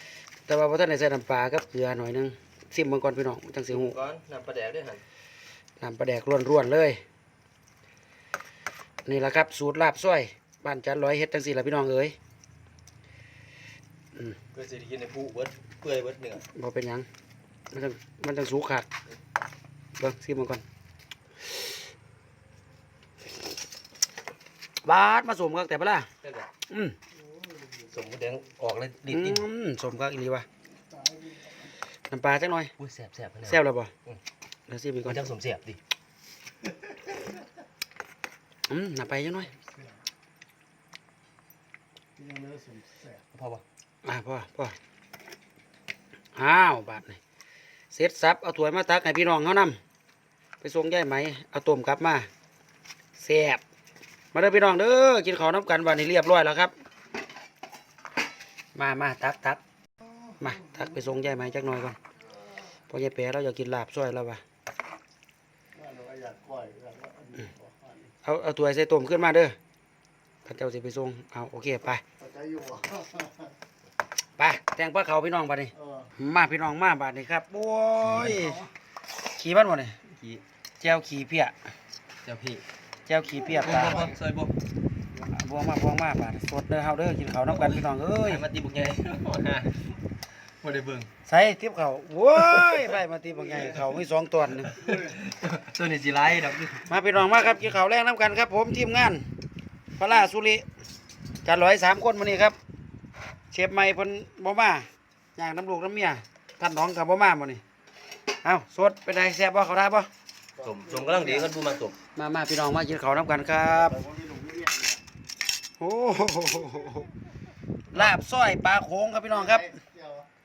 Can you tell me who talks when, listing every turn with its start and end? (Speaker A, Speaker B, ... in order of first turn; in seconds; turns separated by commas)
Speaker A: 0.5-4.0, Speaker B: 3.7-5.0, Speaker A: 5.8-7.0, Speaker A: 9.1-12.1, Speaker B: 14.5-16.4, Speaker A: 16.4-17.1, Speaker A: 17.7-18.9, Speaker A: 20.0-20.6, Speaker A: 24.8-26.1, Speaker B: 26.2-26.5, Speaker A: 26.7-26.9, Speaker B: 27.8-29.4, Speaker A: 29.1-30.5, Speaker A: 32.1-32.7, Speaker B: 32.8-34.2, Speaker A: 33.4-33.9, Speaker A: 34.7-35.3, Speaker B: 35.1-35.8, Speaker A: 38.7-39.5, Speaker C: 42.2-43.2, Speaker B: 43.3-43.6, Speaker A: 44.0-44.7, Speaker A: 46.4-47.2, Speaker A: 47.9-49.8, Speaker A: 50.6-52.3, Speaker A: 53.1-53.6, Speaker A: 54.3-56.7, Speaker A: 58.7-59.6, Speaker A: 60.4-62.0, Speaker A: 62.9-64.4, Speaker C: 65.8-67.8, Speaker A: 68.2-69.5, Speaker A: 70.4-72.0, Speaker C: 72.2-73.3, Speaker A: 74.4-78.7, Speaker B: 78.0-78.5, Speaker A: 79.3-80.0, Speaker B: 80.2-80.4, Speaker A: 80.8-81.5, Speaker B: 82.2-82.6, Speaker A: 83.0-84.1, Speaker B: 83.5-84.5, Speaker A: 85.3-88.4, Speaker B: 87.5-89.9, Speaker B: 90.6-91.1, Speaker A: 91.2-95.0, Speaker B: 92.3-92.9, Speaker B: 94.7-97.0, Speaker A: 96.9-99.2, Speaker A: 100.0-100.6, Speaker A: 101.4-102.6, Speaker A: 103.5-107.6, Speaker A: 108.4-110.1, Speaker B: 110.6-112.0, Speaker C: 110.6-111.2, Speaker A: 112.2-114.0, Speaker C: 114.1-114.9, Speaker A: 115.8-117.1, Speaker A: 117.9-119.8, Speaker C: 119.9-120.2